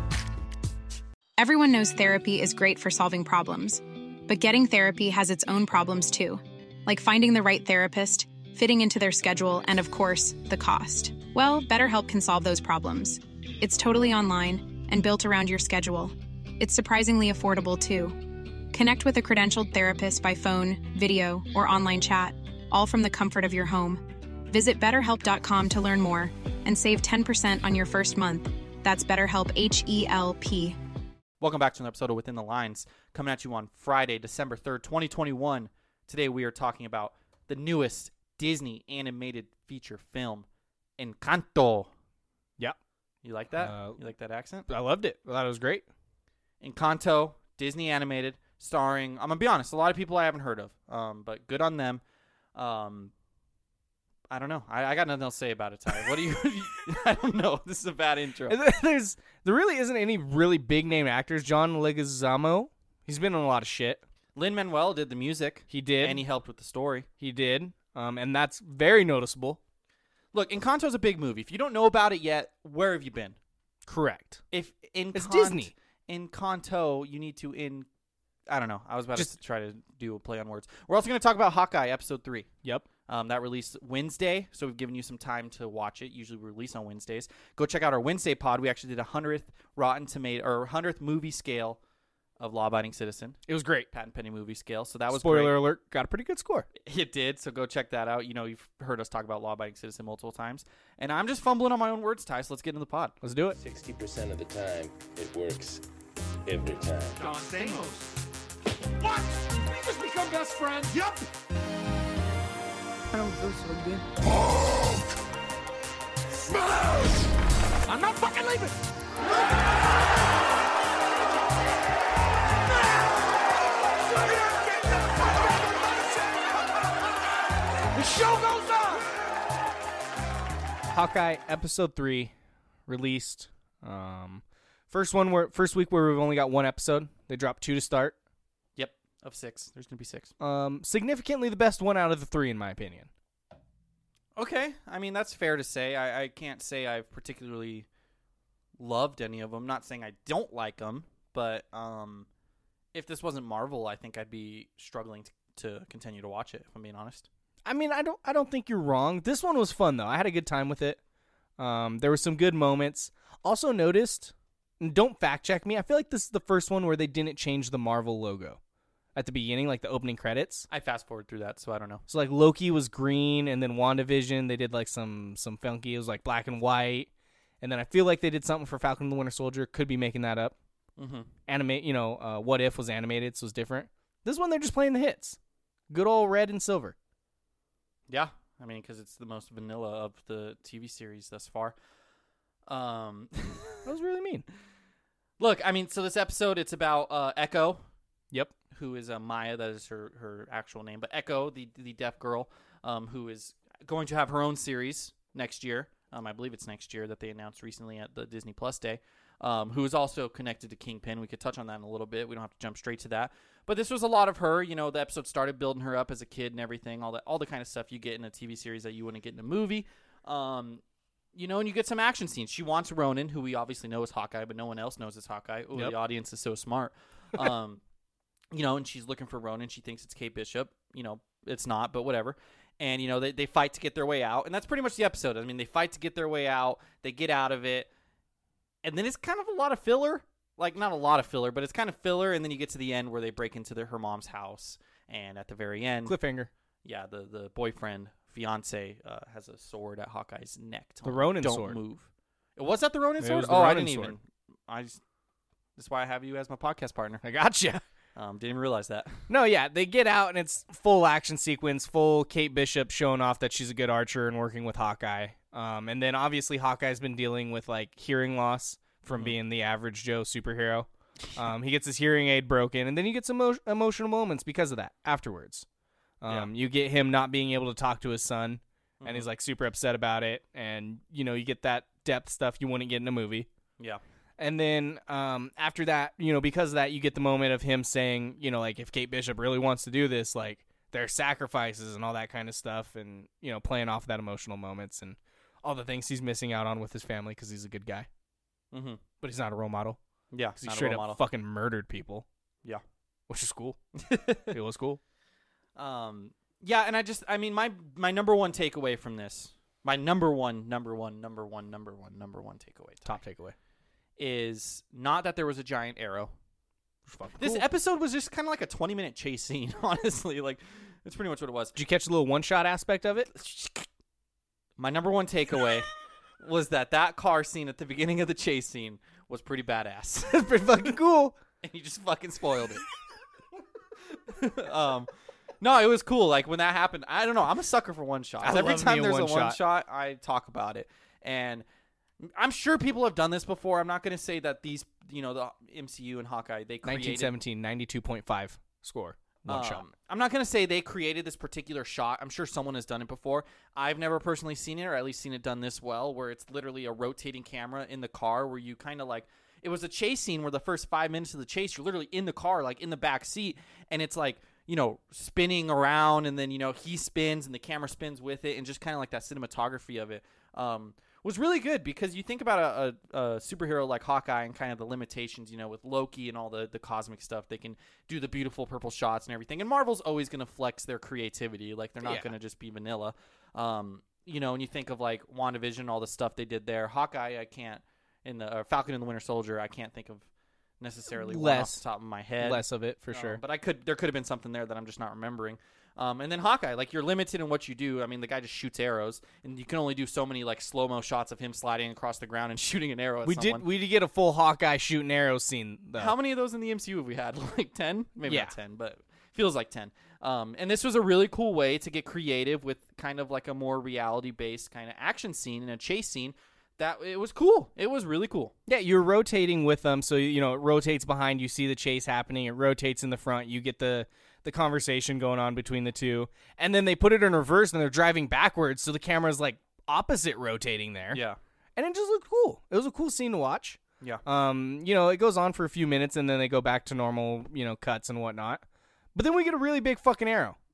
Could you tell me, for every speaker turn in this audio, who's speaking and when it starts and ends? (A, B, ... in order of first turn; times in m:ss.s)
0:01.4-0:30.8 A
0:31.4-0:40.5 B
0:41.0-0:41.9 B
0:43.2-0:44.7 B
0:43.6-0:44.0 C
0:44.7-0:45.9 C
0:46.6-0:52.0 B
0:52.6-0:53.1 B
0:54.3-0:58.6 B
0:58.5-1:04.0 C
1:04.4-1:07.1 B
1:05.7-1:06.2 C
1:07.2-1:09.6 C
1:10.3-1:13.4 B
1:13.9-1:14.4 C
1:14.5-1:17.9 B
1:15.1-1:15.7 C
1:18.5-1:22.5 B
1:23.1-1:31.8 B
1:32.4-1:33.4 B
1:33.5-1:33.9 C
1:33.9-1:35.6 B
1:35.1-1:36.7 C
1:36.8-1:43.2 B
1:43.2-1:43.6 C
1:43.6-1:45.8 D
1:46.5-1:47.3 D
1:47.2-1:48.1 E
1:49.0-1:51.3 E
1:56.4-1:59.8 E
2:02.6-2:03.2 E
2:03.9-2:07.1 E
2:07.9-2:09.1 E
2:10.9-2:12.3 C
2:12.9-2:18.2 C
2:18.8-2:20.3 B
2:20.4-2:23.1 C
2:24.4-2:27.9 B
2:28.8-2:32.3 B
2:32.9-2:37.3 B
2:37.6-2:41.0 C
2:41.6-2:48.6 C
2:49.2-2:50.7 C
2:50.7-2:52.0 B
2:52.1-2:57.1 C
2:57.6-3:00.6 C
3:01.0-3:01.3 B
3:01.5-3:05.4 C
3:05.9-3:07.0 C
3:08.1-3:11.8 B
3:12.7-3:13.9 B
3:13.9-3:14.5 C
3:15.4-3:17.8 B
3:18.7-3:40.8 B
3:41.4-3:47.8 B
3:48.5-3:57.9 B
3:58.8-4:06.2 B
4:06.1-4:06.5 C
4:06.8-4:15.0 B
4:11.0-4:11.8 C
4:13.2-4:14.2 C
4:15.8-4:17.2 B
4:17.2-4:17.8 C
4:18.2-4:19.2 B
4:19.3-4:35.7 C
4:29.1-4:29.4 B
4:36.2-4:43.5 C
4:39.0-4:39.3 B
4:44.4-4:58.1 C
4:58.7-4:59.0 B
4:59.2-5:00.0 C
5:00.3-5:01.2 B
5:00.6-5:02.3 C
5:03.3-5:03.8 C
5:04.0-5:04.5 B
5:04.5-5:05.0 C
5:05.8-5:13.2 B
5:13.1-5:13.6 C
5:14.2-5:16.3 B
5:17.1-5:17.6 C
5:17.4-5:21.8 B
5:21.8-5:23.3 C
5:23.4-5:23.8 B
5:24.8-5:25.9 B
5:26.4-5:30.9 B
5:30.3-5:31.4 C
5:31.6-5:32.8 B
5:34.3-5:35.1 B
5:35.6-5:41.6 B
5:38.4-5:39.6 C
5:42.2-5:47.3 B
5:46.9-5:49.8 C
5:49.5-6:30.3 B
6:22.0-6:22.3 C
6:30.8-6:43.6 B
6:31.1-6:31.8 C
6:32.4-6:33.4 C
6:43.2-6:46.2 C
6:46.0-6:58.6 B
6:48.2-6:48.5 C
6:58.7-7:11.2 C
7:11.1-7:11.4 B
7:11.8-7:18.6 C
7:19.2-7:20.6 C